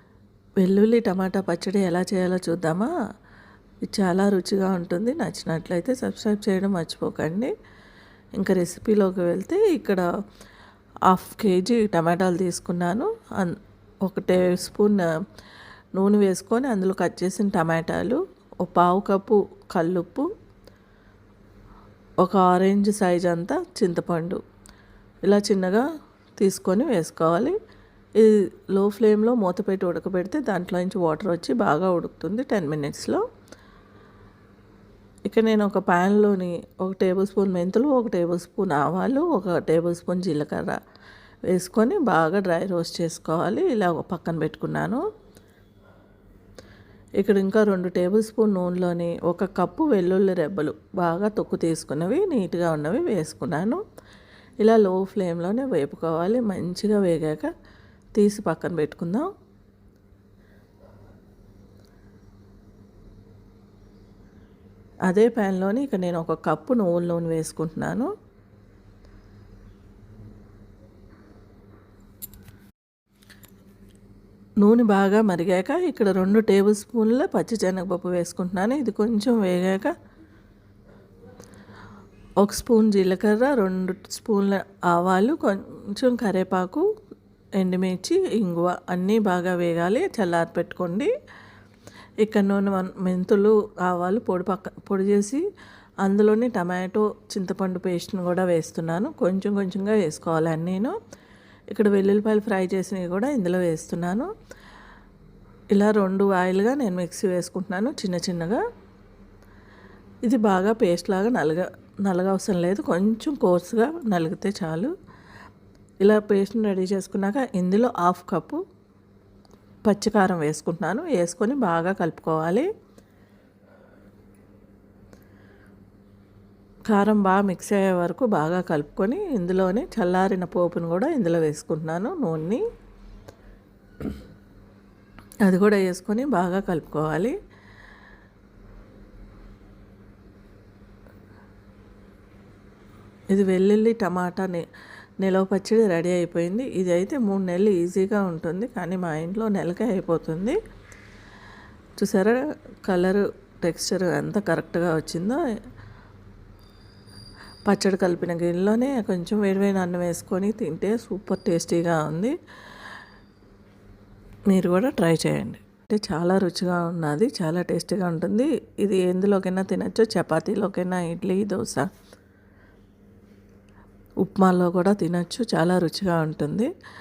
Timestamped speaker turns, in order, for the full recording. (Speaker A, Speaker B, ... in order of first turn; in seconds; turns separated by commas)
Speaker A: 0.6-2.9, Speaker A: 3.9-7.5, Speaker A: 8.4-10.0, Speaker A: 11.1-15.1, Speaker A: 16.0-20.3, Speaker A: 22.2-24.4, Speaker A: 25.2-25.9, Speaker A: 26.4-27.6, Speaker A: 28.2-33.2, Speaker A: 35.3-40.8, Speaker A: 41.5-45.0, Speaker A: 47.2-53.8, Speaker A: 54.6-57.5, Speaker A: 58.2-59.3, Speaker A: 65.1-68.1, Speaker A: 74.6-79.9, Speaker A: 82.4-86.8, Speaker A: 87.6-91.1, Speaker A: 92.2-95.4, Speaker A: 96.0-101.0, Speaker A: 101.7-104.3, Speaker A: 105.7-108.6, Speaker A: 110.2-114.9, Speaker A: 116.0-118.6, Speaker A: 119.8-122.7, Speaker A: 126.9-132.6, Speaker A: 135.4-137.3, Speaker A: 143.3-144.6, Speaker A: 145.2-150.6, Speaker A: 152.0-155.4, Speaker A: 157.7-162.3, Speaker A: 164.5-171.9, Speaker A: 174.2-176.7